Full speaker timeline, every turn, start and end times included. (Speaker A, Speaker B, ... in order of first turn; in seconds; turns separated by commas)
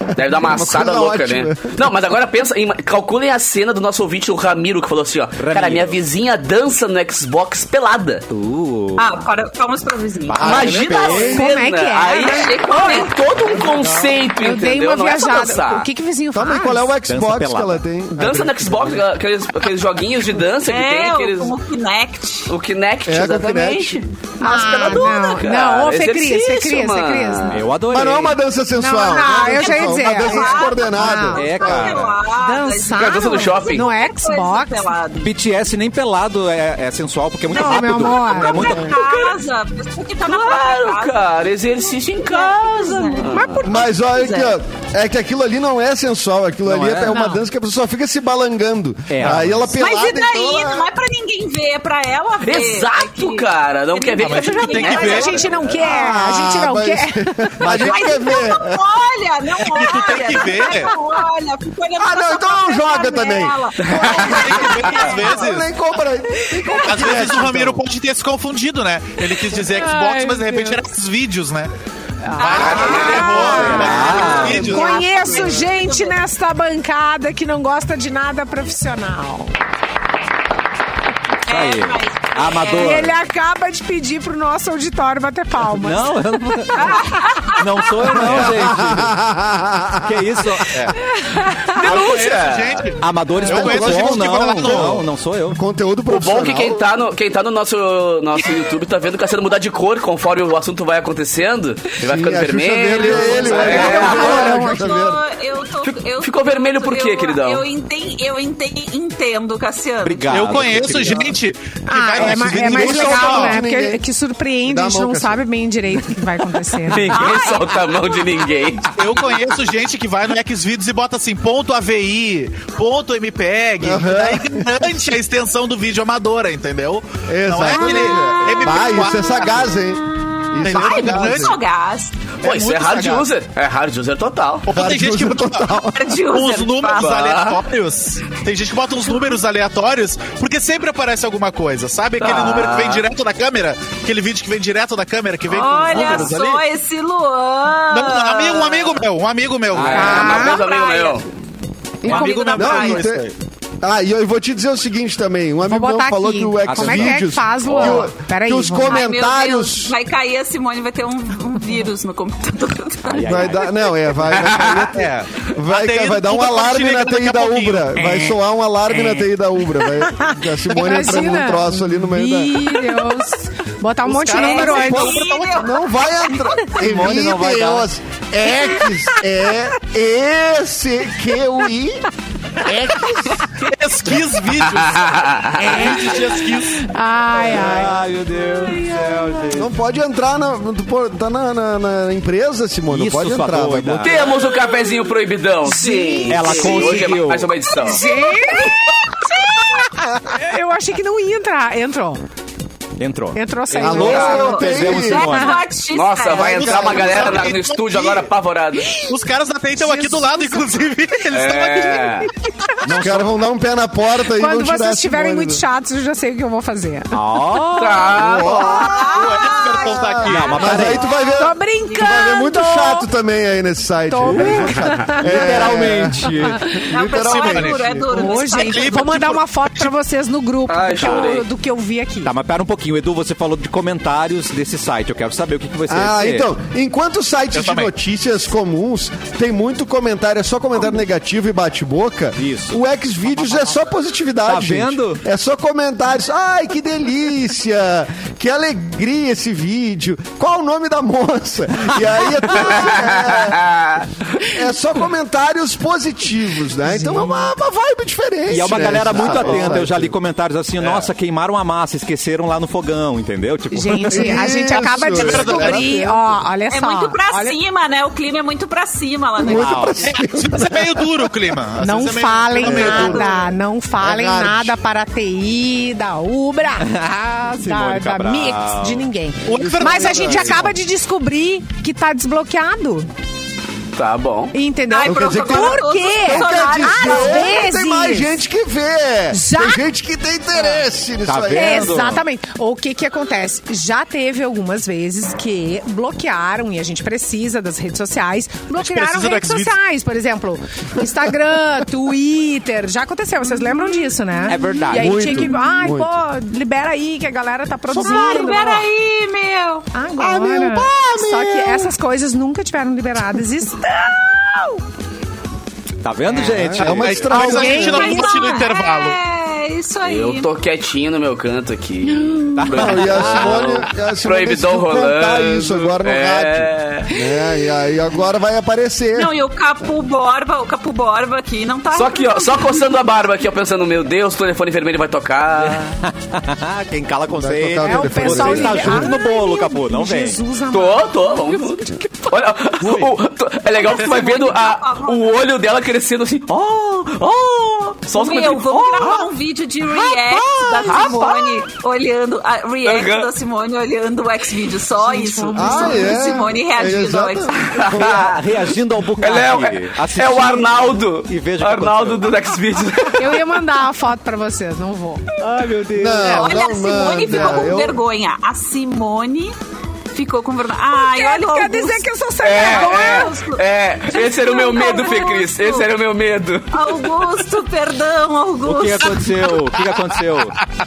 Speaker A: 0.1-8.3, Speaker B: 0.2-1.8, Speaker C: 5.4-6.0, Speaker C: 8.3-9.1, Speaker D: 9.0-11.3, Speaker C: 10.3-11.4, Speaker A: 10.4-15.9, Speaker B: 10.4-11.3, Speaker E: 11.2-13.1, Speaker D: 12.1-13.2, Speaker E: 14.4-16.9, Speaker B: 16.3-19.0, Speaker C: 17.1-17.8, Speaker A: 18.2-21.6, Speaker D: 20.7-22.5, Speaker A: 22.5-27.6, Speaker B: 23.1-24.0, Speaker E: 24.4-27.7, Speaker C: 27.5-28.4, Speaker B: 27.9-32.0, Speaker E: 28.8-31.6, Speaker D: 29.2-35.3, Speaker C: 31.3-32.2, Speaker E: 32.4-34.9, Speaker A: 33.0-33.9, Speaker C: 35.2-39.0, Speaker E: 37.5-38.8, Speaker D: 38.3-41.2, Speaker B: 38.6-38.9, Speaker A: 39.0-39.4, Speaker A: 40.2-43.6, Speaker D: 42.2-44.5, Speaker E: 43.3-43.7, Speaker B: 43.6-50.9, Speaker C: 46.7-47.2, Speaker E: 47.1-47.5, Speaker C: 49.1-49.7, Speaker D: 49.7-55.6, Speaker A: 52.4-55.4, Speaker F: 54.2-55.5, Speaker E: 54.7-57.5, Speaker B: 55.8-58.8, Speaker C: 57.6-58.0, Speaker D: 57.7-65.5, Speaker F: 59.7-61.0, Speaker B: 62.0-67.8, Speaker A: 63.9-64.5, Speaker F: 64.2-65.7, Speaker F: 66.8-71.7, Speaker E: 69.7-70.8, Speaker E: 72.2-79.5, Speaker F: 72.3-74.9, Speaker D: 72.4-76.2, Speaker A: 72.7-73.2, Speaker C: 73.5-74.8, Speaker B: 74.2-75.5, Speaker D: 81.5-83.0, Speaker C: 81.5-83.2, Speaker E: 82.7-87.2, Speaker C: 85.7-87.0, Speaker D: 86.8-87.9, Speaker C: 87.5-89.2, Speaker B: 88.2-90.7, Speaker C: 90.0-90.8, Speaker E: 91.1-91.8, Speaker A: 91.8-92.9, Speaker F: 91.8-95.0, Speaker C: 93.0-95.6, Speaker B: 93.4-96.8, Speaker A: 96.1-104.5, Speaker B: 102.0-105.2, Speaker E: 103.4-105.0, Speaker D: 103.6-110.4, Speaker A: 105.8-107.7, Speaker C: 110.0-111.3, Speaker F: 110.3-113.6, Speaker E: 111.9-117.2, Speaker B: 112.3-114.0, Speaker B: 114.7-115.4, Speaker A: 116.9-119.5, Speaker D: 117.1-118.9, Speaker F: 119.0-129.8, Speaker B: 123.8-124.8, Speaker B: 127.3-131.6, Speaker D: 127.9-128.4, Speaker D: 130.2-132.3, Speaker F: 130.6-131.6, Speaker F: 132.4-133.3, Speaker A: 132.4-134.7, Speaker F: 134.7-135.8, Speaker B: 134.7-136.2, Speaker D: 135.9-137.4, Speaker F: 136.3-146.6, Speaker A: 137.0-137.6, Speaker A: 142.2-143.1, Speaker D: 145.5-149.0, Speaker F: 147.9-150.4, Speaker C: 149.7-150.4, Speaker A: 149.8-151.3, Speaker E: 149.9-150.6, Speaker D: 150.0-151.3, Speaker D: 152.0-153.1, Speaker F: 152.0-153.3, Speaker B: 152.1-153.3, Speaker B: 153.8-159.9, Speaker E: 155.7-159.0, Speaker C: 156.7-158.1, Speaker D: 158.9-163.6, Speaker C: 163.1-163.7, Speaker B: 163.2-172.8, Speaker F: 164.8-168.3, Speaker E: 170.1-175.2, Speaker F: 174.1-175.6, Speaker D: 174.3-176.4, Speaker B: 174.7-182.1, Speaker C: 176.7-177.9, Speaker B: 182.6-183.4, Speaker F: 183.6-186.8, Speaker A: 184.6-185.9, Speaker E: 185.6-188.1, Speaker C: 187.3-189.7, Speaker E: 188.6-189.4, Speaker B: 189.5-194.1, Speaker C: 192.9-194.3, Speaker A: 194.0-198.0, Speaker E: 195.7-197.1, Speaker C: 196.3-197.5, Speaker E: 197.8-202.2, Speaker C: 203.0-205.6, Speaker E: 203.3-205.6, Speaker B: 203.8-205.3, Speaker D: 204.0-207.4, Speaker A: 205.9-209.0, Speaker F: 206.4-208.3, Speaker B: 206.8-207.1, Speaker E: 208.9-209.1, Speaker F: 209.1-212.3, Speaker E: 209.8-210.7, Speaker A: 211.3-212.3, Speaker C: 212.9-213.3, Speaker B: 212.9-215.6, Speaker E: 214.3-218.0, Speaker C: 217.1-218.3, Speaker A: 217.8-218.9, Speaker B: 218.2-228.0, Speaker D: 218.6-220.0, Speaker F: 219.1-220.9, Speaker C: 220.2-221.1, Speaker D: 220.6-222.2, Speaker E: 221.3-223.1, Speaker E: 224.1-225.2, Speaker C: 224.2-226.8, Speaker E: 226.4-226.8, Speaker D: 226.9-229.2, Speaker F: 227.2-229.9, Speaker E: 228.1-232.3, Speaker A: 230.7-231.5, Speaker C: 232.2-236.5, Speaker B: 235.9-260.1, Speaker F: 237.5-237.9, Speaker C: 242.4-243.8, Speaker C: 244.5-245.2, Speaker A: 252.9-253.9, Speaker E: 256.9-257.5, Speaker C: 258.5-264.8, Speaker F: 260.8-261.1, Speaker E: 263.7-267.6, Speaker B: 264.1-266.4, Speaker F: 265.1-265.9, Speaker D: 266.7-269.9, Speaker B: 269.4-271.3, Speaker C: 269.5-270.0, Speaker F: 270.1-273.2, Speaker E: 271.8-276.9, Speaker B: 272.6-274.8, Speaker D: 273.0-273.4, Speaker C: 276.8-279.1, Speaker E: 277.5-283.1, Speaker F: 279.4-280.7, Speaker B: 279.5-280.7, Speaker A: 283.9-284.6, Speaker E: 284.5-288.4, Speaker D: 284.9-287.6, Speaker B: 285.0-292.0, Speaker E: 289.3-289.8, Speaker C: 291.2-292.2, Speaker E: 291.5-308.9, Speaker F: 298.8-299.8, Speaker C: 304.5-305.6, Speaker B: 304.9-306.1, Speaker D: 307.9-309.9, Speaker E: 309.9-314.8, Speaker B: 310.2-311.9, Speaker C: 316.0-317.4, Speaker B: 316.4-318.1, Speaker F: 316.8-319.2, Speaker E: 317.3-318.6, Speaker D: 317.8-320.5, Speaker A: 320.0-327.1, Speaker C: 322.6-323.8, Speaker B: 322.7-329.3, Speaker D: 329.2-332.8, Speaker A: 331.9-335.9, Speaker C: 335.6-340.4, Speaker B: 337.4-339.1, Speaker E: 337.8-342.1, Speaker A: 340.7-349.3, Speaker D: 343.7-345.4, Speaker D: 348.1-357.7, Speaker A: 349.9-351.6, Speaker A: 352.8-353.3, Speaker E: 355.0-356.3, Speaker B: 355.6-358.3, Speaker A: 357.7-358.4, Speaker C: 357.9-362.4, Speaker A: 359.2-363.4, Speaker E: 363.1-365.3, Speaker C: 365.4-366.4, Speaker B: 365.9-368.0, Speaker D: 366.2-369.6, Speaker D: 370.1-375.9, Speaker E: 370.9-373.4, Speaker A: 372.4-377.3, Speaker D: 376.7-379.4, Speaker C: 378.6-380.6